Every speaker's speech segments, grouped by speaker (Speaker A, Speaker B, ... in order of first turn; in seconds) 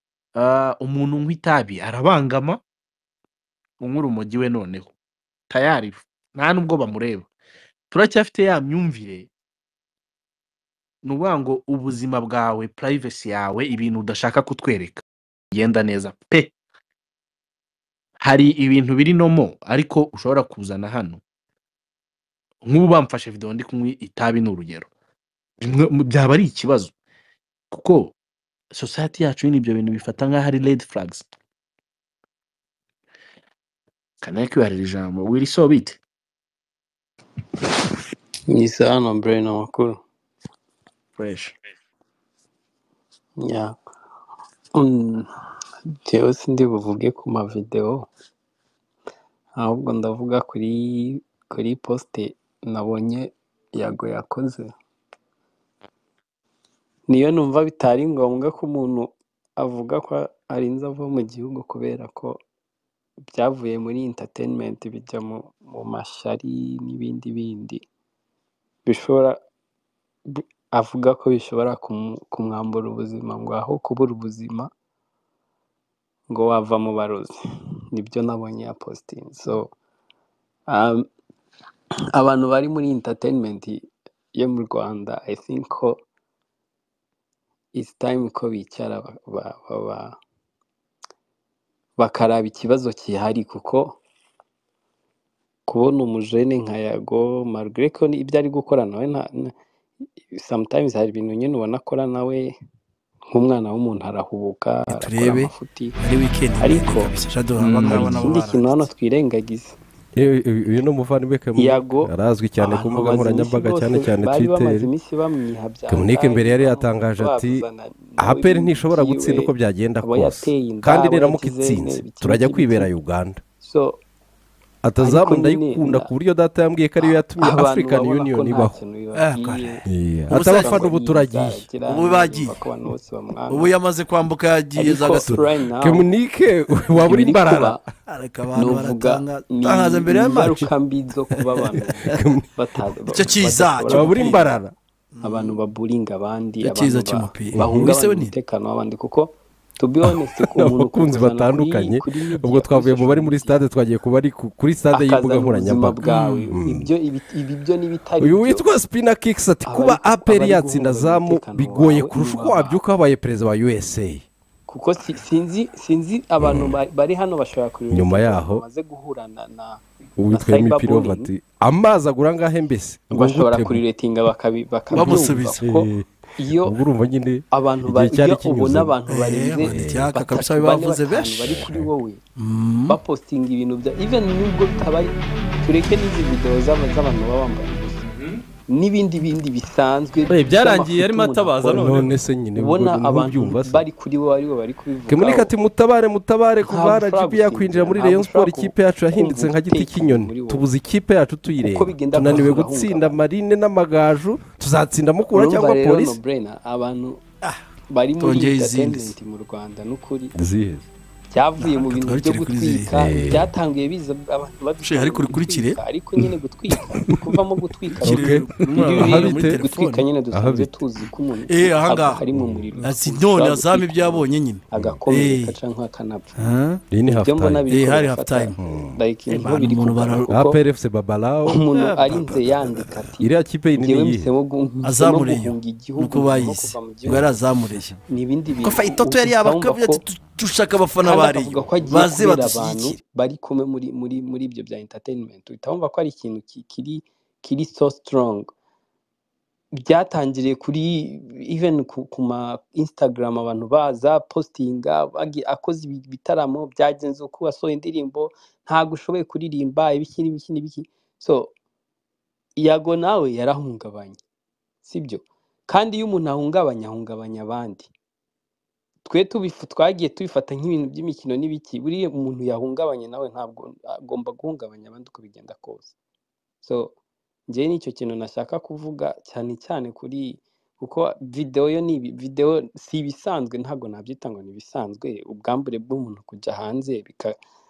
Speaker A: 0.4-2.6, 3.8-4.9, 5.5-7.3, 7.9-9.3, 11.0-16.5, 18.2-21.2, 22.7-24.9, 25.6-26.9, 27.7-28.1, 28.7-31.2, 34.2-36.0, 41.2-41.5
Speaker B: 38.5-40.0, 43.4-43.7, 44.8-45.3, 46.0-48.1, 49.6-54.7, 57.1-62.4, 63.3-67.8, 68.9-69.4, 70.3-74.7, 76.3-77.3, 77.9-79.7, 80.7-81.1, 82.1-83.8, 84.3-86.0, 87.8-90.2, 92.0-94.0, 95.7-99.5, 100.3-102.5, 103.3-106.0, 106.6-107.1, 107.7-109.8, 111.5-122.9, 123.6-124.0, 125.0-126.1, 127.0-133.7, 134.7-136.1, 137.0-137.8, 138.5-144.6, 145.2-153.6, 154.9-158.7, 159.7-162.8, 164.7-169.8, 170.3-171.3, 173.1-176.8, 177.5-182.2, 182.9-188.1, 188.7-195.5, 196.7-200.7, 201.6-203.2, 205.3-207.2, 207.9-210.3, 211.3-226.5, 227.1-230.6, 231.4-237.4, 238.1-240.0, 241.0-248.5, 249.8-261.5, 262.6-264.2, 264.9-267.9, 269.1-275.9, 276.6-276.9, 277.5-287.4
Speaker C: 104.9-108.9, 129.1-130.9, 131.9-132.6, 133.5-135.4, 138.1-140.7, 141.5-142.2, 143.1-144.4, 145.2-145.6, 146.6-148.3, 156.0-156.5, 174.9-175.6, 179.1-181.6, 182.4-183.0, 208.2-209.1, 211.6-212.9, 214.8-216.2, 217.9-220.1, 221.5-222.2, 222.8-225.6, 226.4-226.8, 227.7-228.6, 229.3-230.3, 231.7-233.0, 234.8-238.0, 238.6-243.0
Speaker D: 110.2-114.9, 115.9-117.6, 118.2-123.4, 124.8-128.8, 129.9-131.7, 135.3-137.8, 142.1-142.4, 143.9-144.7, 147.5-147.9, 150.4-156.9, 158.2-164.2, 166.4-166.8, 167.9-168.6, 170.2-173.8, 174.9-179.0, 179.6-180.1, 181.4-181.9, 191.7-193.8, 195.1-206.2, 210.3-210.8, 212.9-213.5, 218.0-219.6, 220.3-220.7, 222.3-222.8, 224.7-225.0, 226.9-227.7, 228.6-229.0, 230.3-232.5, 233.2-234.3